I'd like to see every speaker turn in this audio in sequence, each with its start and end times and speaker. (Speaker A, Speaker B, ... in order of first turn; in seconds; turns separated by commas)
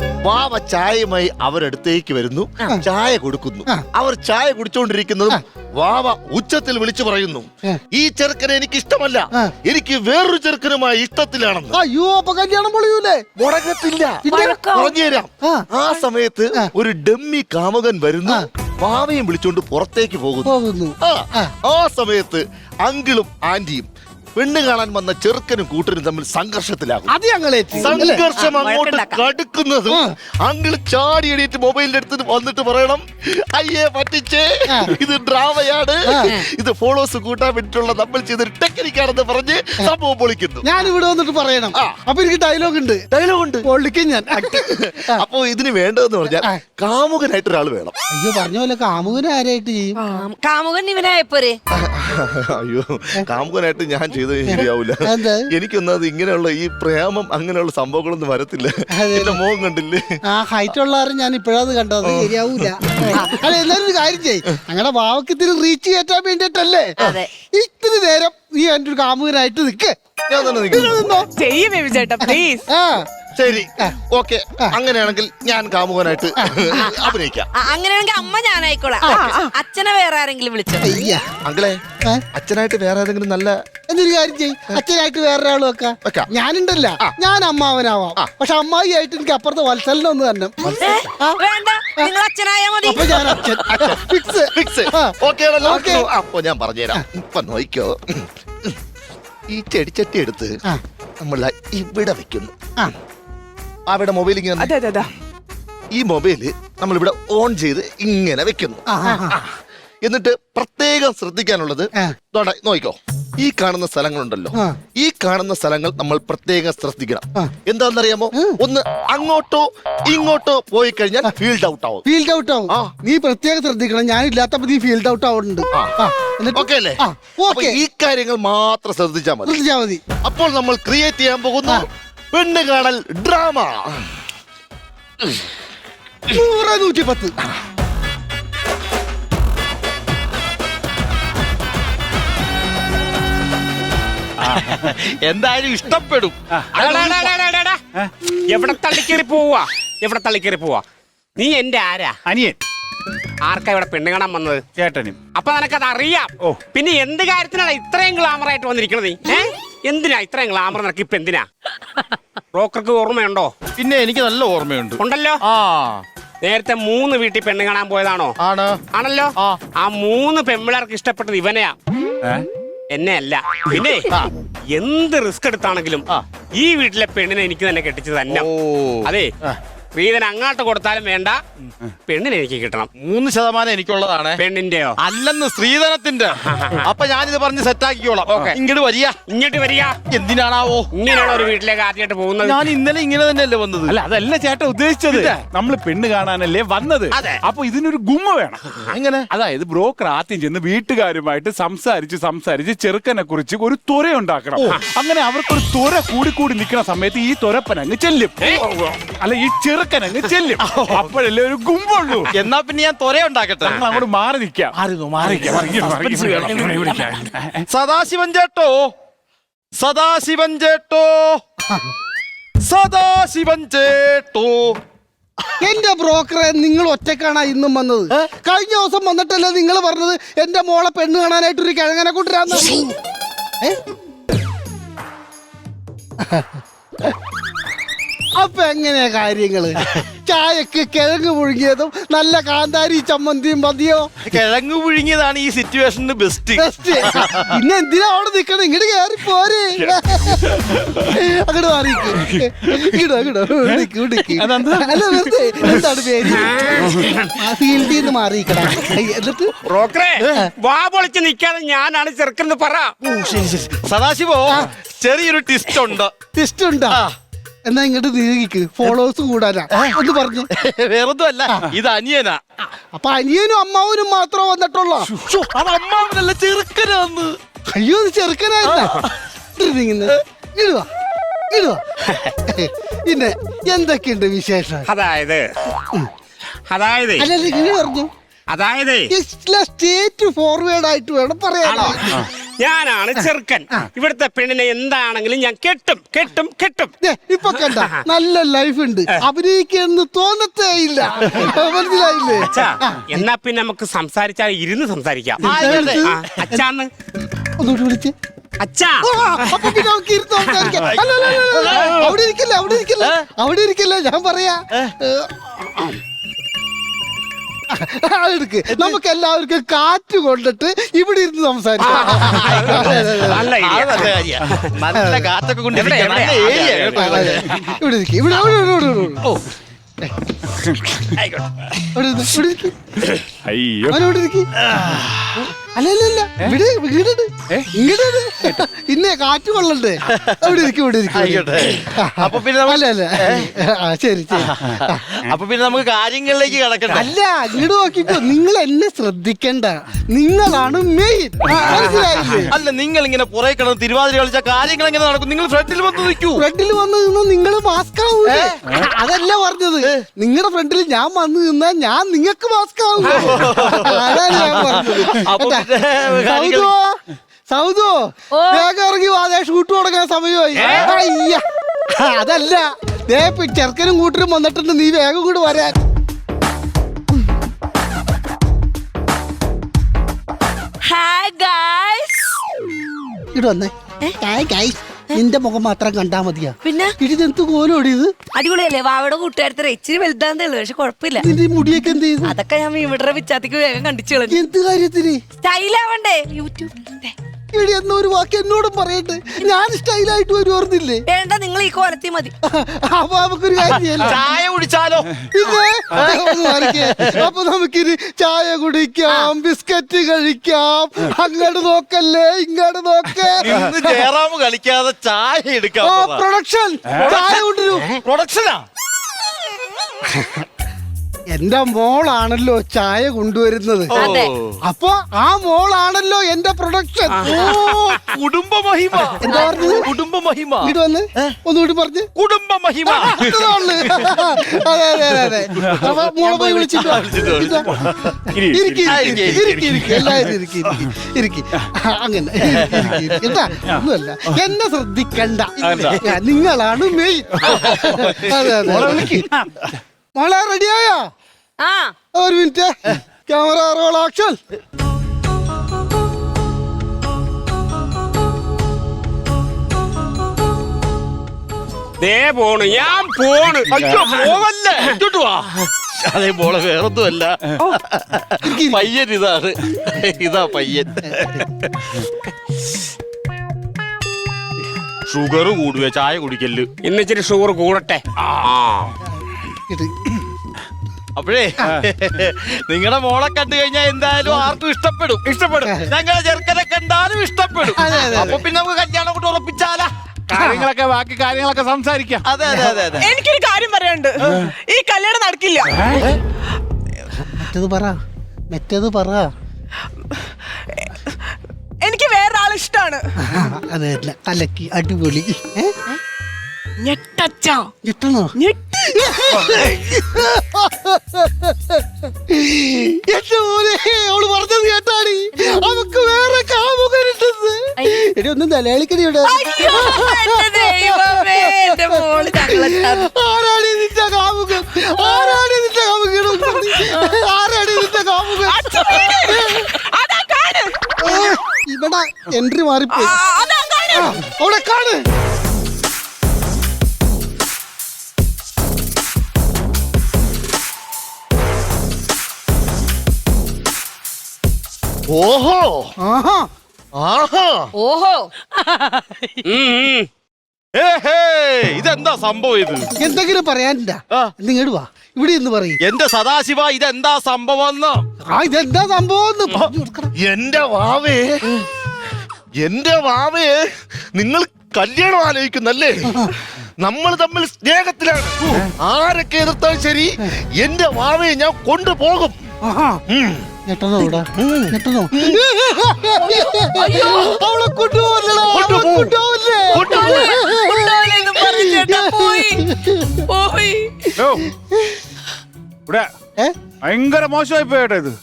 Speaker A: 0.2-11.8, Speaker B: 11.7-13.2, Speaker A: 13.3-14.2, Speaker B: 14.2-14.6, Speaker C: 14.3-14.9, Speaker A: 14.7-27.1, Speaker B: 20.4-21.5, Speaker B: 27.1-28.2, Speaker A: 27.8-40.7, Speaker C: 28.3-29.2, Speaker B: 36.1-36.4, Speaker B: 40.6-43.0, Speaker A: 43.1-43.6, Speaker B: 43.6-45.2, Speaker A: 44.4-47.9, Speaker B: 48.1-50.0, Speaker C: 50.0-51.6, Speaker A: 51.7-60.2, Speaker B: 54.5-55.5, Speaker B: 58.9-59.4, Speaker B: 60.3-70.0, Speaker A: 62.0-63.1, Speaker C: 67.0-67.3, Speaker A: 70.3-71.0, Speaker B: 70.7-71.3, Speaker D: 71.3-72.7, Speaker B: 72.2-73.0, Speaker A: 73.3-77.5, Speaker B: 76.4-76.7, Speaker C: 76.8-81.1, Speaker B: 79.0-79.3, Speaker D: 79.0-79.5, Speaker B: 80.8-81.2, Speaker A: 81.4-81.8, Speaker A: 82.3-83.5, Speaker B: 83.9-91.4, Speaker A: 86.0-86.3, Speaker C: 90.6-93.4, Speaker B: 92.8-96.1, Speaker A: 93.7-98.8, Speaker A: 99.5-100.6, Speaker A: 101.2-102.5, Speaker A: 103.9-104.7, Speaker D: 104.6-105.1, Speaker A: 105.9-109.4, Speaker B: 108.9-109.4, Speaker A: 110.0-122.0, Speaker B: 122.0-127.8, Speaker A: 125.7-126.0, Speaker A: 126.5-129.5, Speaker B: 129.4-130.0, Speaker A: 130.2-134.1, Speaker B: 136.3-137.3, Speaker E: 144.5-144.9, Speaker F: 144.5-146.3, Speaker E: 146.5-147.3, Speaker G: 146.7-147.8, Speaker G: 148.5-150.8, Speaker G: 151.4-152.2, Speaker E: 152.3-152.6, Speaker G: 153.4-154.6, Speaker E: 154.8-155.2, Speaker G: 155.3-161.4, Speaker G: 162.5-163.5, Speaker F: 163.8-166.0, Speaker G: 165.0-165.4, Speaker G: 166.4-168.3, Speaker F: 168.4-168.8, Speaker G: 168.9-171.8, Speaker G: 172.9-174.1, Speaker G: 174.7-176.0, Speaker G: 176.6-178.5, Speaker F: 178.3-179.6, Speaker G: 179.9-181.4, Speaker G: 182.1-182.9, Speaker F: 183.0-184.4, Speaker G: 184.4-184.9, Speaker F: 185.0-189.2, Speaker G: 186.4-186.8, Speaker G: 189.3-189.9, Speaker F: 190.1-190.9, Speaker G: 190.9-192.6, Speaker F: 192.4-194.0, Speaker E: 193.9-198.6, Speaker F: 195.1-195.4, Speaker G: 197.1-197.4, Speaker F: 198.9-199.3, Speaker E: 199.3-212.3, Speaker F: 210.6-211.1, Speaker F: 212.3-213.9, Speaker E: 213.6-217.6, Speaker F: 214.7-217.0, Speaker F: 217.7-218.9, Speaker F: 219.8-221.4, Speaker F: 222.6-224.8, Speaker B: 225.6-232.9, Speaker B: 236.2-236.5, Speaker B: 238.4-244.1, Speaker F: 244.2-247.5, Speaker B: 246.6-256.8, Speaker E: 250.3-250.9, Speaker E: 253.7-255.3, Speaker G: 256.3-257.3, Speaker B: 257.3-259.5, Speaker G: 259.6-262.9, Speaker F: 263.0-266.1, Speaker B: 266.3-267.0, Speaker B: 267.6-270.5, Speaker F: 270.5-272.4, Speaker B: 272.9-275.1, Speaker F: 275.1-277.4, Speaker B: 277.7-280.9, Speaker F: 278.7-279.1, Speaker B: 281.5-281.8, Speaker B: 282.5-284.9, Speaker G: 284.9-285.4, Speaker G: 286.7-287.3, Speaker B: 287.2-288.1, Speaker G: 288.5-289.1, Speaker B: 289.1-292.2, Speaker G: 291.6-296.9, Speaker B: 293.2-293.9, Speaker B: 297.0-303.3, Speaker G: 302.4-306.9, Speaker F: 305.4-306.1, Speaker B: 305.4-306.6, Speaker B: 307.6-308.1, Speaker G: 308.6-309.8, Speaker B: 309.0-316.0, Speaker F: 310.7-312.1, Speaker B: 317.7-323.4, Speaker G: 321.8-324.6, Speaker F: 322.3-323.0, Speaker F: 323.6-327.7, Speaker B: 324.9-325.2, Speaker G: 325.7-327.1, Speaker B: 327.0-329.3, Speaker E: 330.6-331.1, Speaker F: 331.2-331.7, Speaker B: 331.9-332.7, Speaker E: 333.3-334.0, Speaker B: 333.9-334.5, Speaker F: 334.6-335.2, Speaker B: 335.6-345.0, Speaker F: 340.1-343.5, Speaker F: 344.4-347.1, Speaker B: 346.9-352.5, Speaker G: 351.8-352.3, Speaker F: 352.5-356.4, Speaker B: 356.3-365.7, Speaker F: 358.3-358.5, Speaker F: 363.0-366.7, Speaker B: 366.2-368.0, Speaker C: 368.3-368.6, Speaker B: 368.5-371.4, Speaker B: 371.9-375.7, Speaker C: 380.8-382.3, Speaker B: 383.3-388.1, Speaker C: 386.6-386.9, Speaker C: 388.3-391.2, Speaker B: 391.2-392.3, Speaker C: 392.2-394.4, Speaker B: 394.3-395.2, Speaker C: 395.4-397.1, Speaker B: 397.5-401.0, Speaker C: 401.1-402.3, Speaker B: 402.5-404.2, Speaker F: 403.7-405.1, Speaker B: 405.3-414.1, Speaker F: 405.9-407.2, Speaker E: 413.4-413.7, Speaker F: 413.5-416.2, Speaker B: 415.8-417.9, Speaker E: 416.9-417.1, Speaker F: 417.0-417.4, Speaker F: 418.0-418.6, Speaker B: 421.3-424.1, Speaker C: 423.9-424.3, Speaker F: 423.9-424.6, Speaker B: 424.6-427.4, Speaker G: 427.1-428.0, Speaker F: 427.2-431.4, Speaker B: 429.2-429.9, Speaker C: 429.3-429.7, Speaker B: 430.6-432.1, Speaker F: 432.2-434.1, Speaker B: 432.9-437.7, Speaker F: 435.2-438.2, Speaker E: 437.7-440.3, Speaker B: 438.4-449.2, Speaker F: 438.8-440.2, Speaker F: 442.5-442.8, Speaker E: 443.6-444.4, Speaker F: 445.6-446.1, Speaker F: 447.4-449.1, Speaker E: 448.7-449.6, Speaker B: 450.1-451.0, Speaker C: 451.6-451.9, Speaker B: 452.1-454.4, Speaker G: 462.0-464.3, Speaker F: 463.7-471.7, Speaker B: 468.4-468.8, Speaker B: 471.1-471.4, Speaker F: 475.1-476.7, Speaker G: 476.8-478.9, Speaker B: 479.7-479.9, Speaker F: 481.1-485.2, Speaker E: 485.2-485.8, Speaker F: 485.8-489.9, Speaker B: 487.8-488.4, Speaker E: 490.3-492.2, Speaker B: 490.3-490.6, Speaker F: 492.2-493.1, Speaker B: 492.4-492.8, Speaker D: 493.0-495.8, Speaker E: 495.7-496.1, Speaker B: 497.2-498.0, Speaker B: 498.5-499.3, Speaker D: 500.8-501.1, Speaker D: 501.8-503.0, Speaker B: 503.2-505.7, Speaker D: 506.8-507.7, Speaker B: 507.8-529.7, Speaker D: 508.4-508.7, Speaker C: 519.2-523.1, Speaker C: 525.0-525.3, Speaker C: 526.8-527.1, Speaker D: 528.5-530.7, Speaker B: 531.0-533.1, Speaker D: 532.9-534.1, Speaker B: 533.9-535.0, Speaker A: 545.1-545.9, Speaker B: 546.0-546.5, Speaker A: 547.0-547.7, Speaker C: 547.8-549.2, Speaker G: 549.4-550.1, Speaker F: 550.7-552.9, Speaker B: 553.0-555.8, Speaker F: 555.8-558.0, Speaker B: 558.3-560.1, Speaker A: 560.2-561.3, Speaker A: 562.6-563.6, Speaker A: 564.1-566.1, Speaker B: 566.0-566.3, Speaker A: 566.8-572.4, Speaker B: 572.6-573.0, Speaker A: 573.1-573.5, Speaker B: 573.7-583.2, Speaker A: 574.3-575.4, Speaker C: 576.2-577.3, Speaker A: 578.5-579.1, Speaker A: 579.7-580.2, Speaker C: 579.8-582.7, Speaker C: 583.3-584.2, Speaker E: 584.2-584.4, Speaker B: 584.6-585.0, Speaker E: 586.8-588.1